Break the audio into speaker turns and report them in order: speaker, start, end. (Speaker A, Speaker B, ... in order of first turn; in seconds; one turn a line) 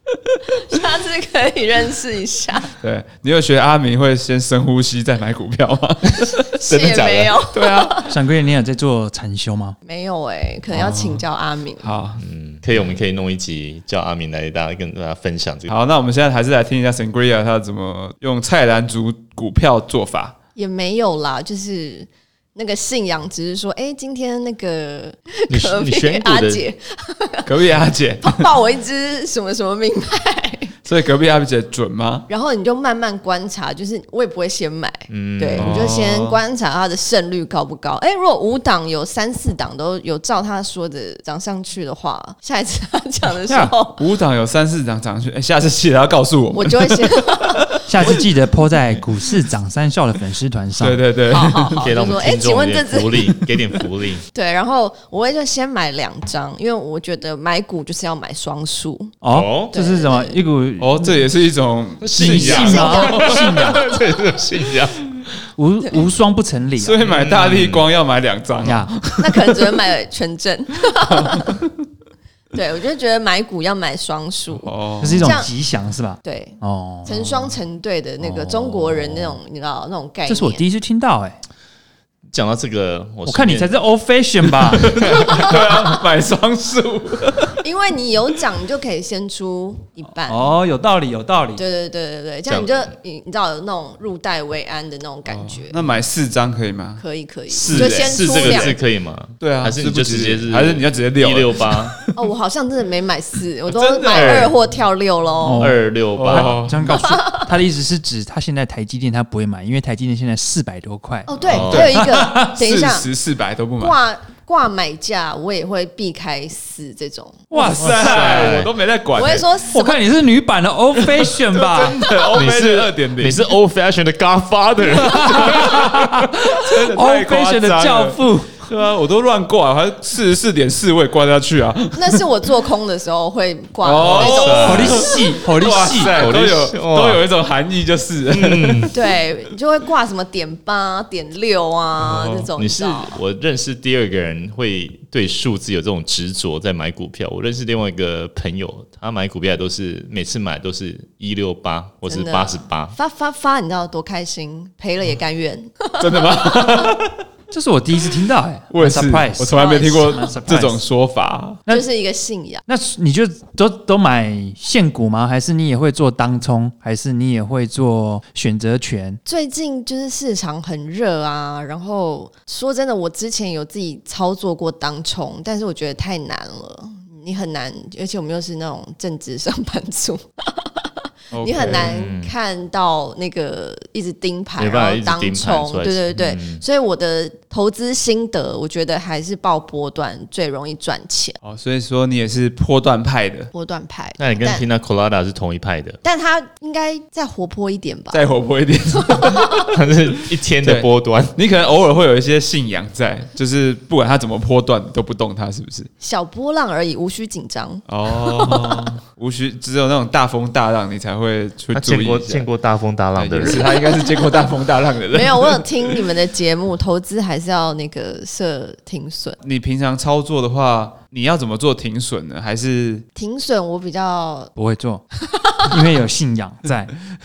Speaker A: 0.5-2.7
Speaker B: 2.8-8.1
Speaker A: 6.5-8.2
Speaker C: 6.7-7.2
Speaker D: 8.1-9.8
Speaker A: 9.8-11.9
Speaker B: 10.7-11.2
Speaker B: 11.8-12.2
Speaker C: 12.2-15.8
Speaker B: 15.7-20.3
Speaker A: 20.6-27.5
Speaker C: 25.5-26.6
Speaker B: 27.4-28.5
Speaker A: 28.2-30.7
Speaker B: 30.9-32.3
Speaker A: 32.3-44.0
Speaker C: 35.1-35.9
Speaker B: 35.6-36.4
Speaker D: 43.5-43.7
Speaker B: 44.0-48.1
Speaker A: 46.5-48.2
Speaker D: 47.9-51.0
Speaker B: 50.8-51.9
Speaker A: 51.3-53.5
Speaker C: 51.8-54.2
Speaker A: 54.3-59.2
Speaker D: 59.2-61.3
Speaker C: 59.3-59.8
Speaker A: 59.7-60.4
Speaker B: 60.8-63.5
Speaker C: 62.0-65.0
Speaker D: 62.1-63.9
Speaker A: 62.5-63.3
Speaker D: 65.6-67.0
Speaker B: 66.8-69.9
Speaker C: 67.0-67.9
Speaker D: 68.6-68.9
Speaker A: 69.2-71.6
Speaker B: 71.1-71.7
Speaker A: 72.5-75.5
Speaker B: 74.5-75.4
Speaker D: 75.0-77.5
Speaker A: 76.2-80.6
Speaker D: 78.2-79.3
Speaker D: 80.3-81.4
Speaker C: 82.3-83.8
Speaker D: 83.3-85.0
Speaker B: 84.6-87.6
Speaker C: 85.0-85.6
Speaker A: 87.6-90.5
Speaker D: 90.3-91.6
Speaker A: 91.6-95.8
Speaker C: 92.5-92.9
Speaker B: 95.3-98.8
Speaker A: 97.0-98.8
Speaker C: 97.7-102.0
Speaker B: 99.4-102.1
Speaker A: 102.2-105.7
Speaker B: 103.7-104.6
Speaker C: 104.1-104.5
Speaker D: 105.4-112.5
Speaker C: 105.6-106.6
Speaker B: 106.2-107.0
Speaker A: 106.9-107.5
Speaker A: 111.3-113.1
Speaker B: 111.4-114.0
Speaker C: 111.5-112.0
Speaker A: 113.8-117.5
Speaker D: 117.5-118.6
Speaker B: 117.5-119.5
Speaker C: 117.8-118.7
Speaker A: 119.1-120.0
Speaker D: 119.7-122.0
Speaker B: 121.1-123.5
Speaker C: 122.3-126.2
Speaker D: 124.9-128.6
Speaker B: 126.5-132.2
Speaker A: 131.9-135.2
Speaker B: 133.8-138.9
Speaker C: 134.0-135.1
Speaker D: 134.6-136.2
Speaker C: 136.1-137.2
Speaker C: 138.3-138.9
Speaker A: 138.9-143.2
Speaker B: 142.0-142.5
Speaker C: 142.6-152.9
Speaker A: 152.1-156.8
Speaker B: 156.0-157.2
Speaker D: 157.5-160.8
Speaker B: 158.7-161.6
Speaker A: 159.5-160.3
Speaker A: 161.7-162.6
Speaker D: 162.7-169.2
Speaker A: 169.2-191.4
Speaker B: 181.3-182.1
Speaker C: 181.7-182.3
Speaker C: 184.6-186.6
Speaker B: 191.4-193.5
Speaker A: 193.5-194.7
Speaker C: 194.2-196.0
Speaker A: 196.0-198.3
Speaker B: 198.1-199.6
Speaker A: 199.0-199.7
Speaker C: 199.7-201.3
Speaker B: 200.6-205.9
Speaker A: 206.0-208.9
Speaker B: 207.9-212.5
Speaker C: 211.7-213.7
Speaker B: 213.2-216.0
Speaker A: 213.7-214.4
Speaker A: 215.1-219.4
Speaker B: 219.4-223.1
Speaker A: 223.2-224.5
Speaker D: 224.6-225.0
Speaker A: 225.3-225.8
Speaker D: 225.6-226.9